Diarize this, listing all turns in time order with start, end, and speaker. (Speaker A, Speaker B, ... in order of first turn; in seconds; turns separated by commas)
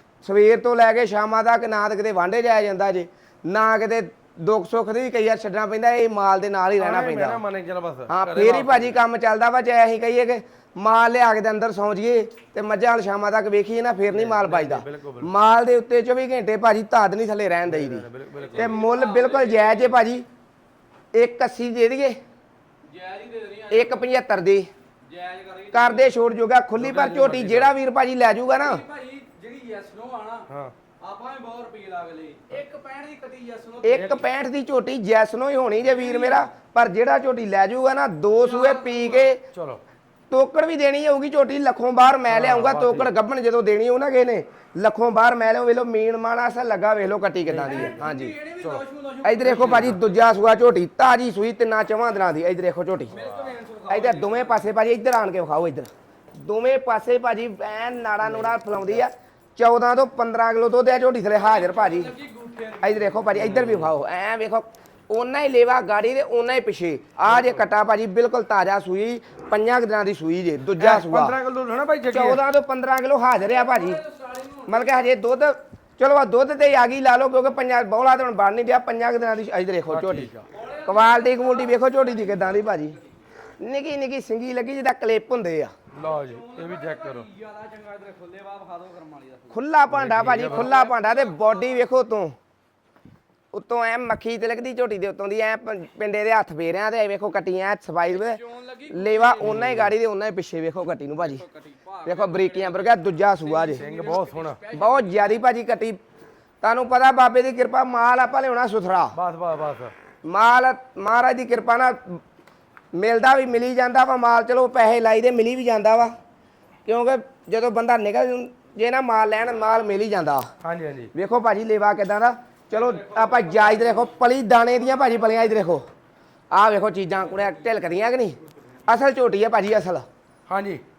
Speaker A: 0.2-7.4, Speaker B: 6.8-9.0, Speaker A: 8.1-20.2, Speaker B: 14.1-15.3, Speaker B: 17.7-18.8, Speaker C: 18.4-20.0, Speaker A: 21.1-22.2, Speaker C: 22.8-24.0, Speaker A: 23.7-24.7, Speaker C: 25.0-26.3, Speaker A: 25.7-28.8, Speaker B: 26.8-27.8, Speaker C: 28.6-30.5, Speaker B: 30.5-30.7, Speaker C: 31.0-34.2, Speaker A: 33.8-39.4, Speaker C: 35.9-36.5, Speaker C: 38.3-39.3, Speaker B: 39.5-39.8, Speaker A: 40.3-48.3, Speaker B: 42.3-43.1, Speaker B: 47.5-48.0, Speaker C: 47.7-50.1, Speaker A: 49.2-53.1, Speaker B: 49.4-50.0, Speaker C: 53.1-54.6, Speaker B: 53.1-53.6, Speaker A: 53.9-62.1, Speaker B: 58.2-58.5, Speaker C: 61.4-63.3, Speaker A: 62.8-71.4, Speaker B: 63.3-63.9, Speaker B: 67.3-67.6, Speaker B: 70.8-72.4, Speaker A: 72.1-74.0, Speaker C: 73.5-75.1, Speaker A: 74.7-80.3, Speaker B: 79.9-80.4, Speaker C: 80.5-83.2, Speaker A: 80.8-83.0, Speaker A: 83.6-85.7, Speaker B: 85.9-87.3, Speaker C: 86.0-89.6, Speaker A: 89.5-92.3, Speaker B: 89.9-90.7, Speaker C: 90.2-91.9, Speaker A: 93.5-101.4, Speaker C: 98.1-99.6, Speaker B: 99.4-99.9, Speaker C: 101.2-105.4, Speaker A: 102.0-103.8, Speaker B: 103.7-104.6, Speaker A: 104.7-106.0, Speaker A: 106.6-109.1, Speaker B: 109.1-109.9, Speaker A: 110.2-112.2, Speaker A: 112.9-116.1, Speaker A: 116.8-120.5, Speaker B: 120.6-121.1, Speaker A: 121.1-125.8, Speaker C: 122.7-124.1, Speaker A: 126.5-130.1, Speaker B: 130.5-130.8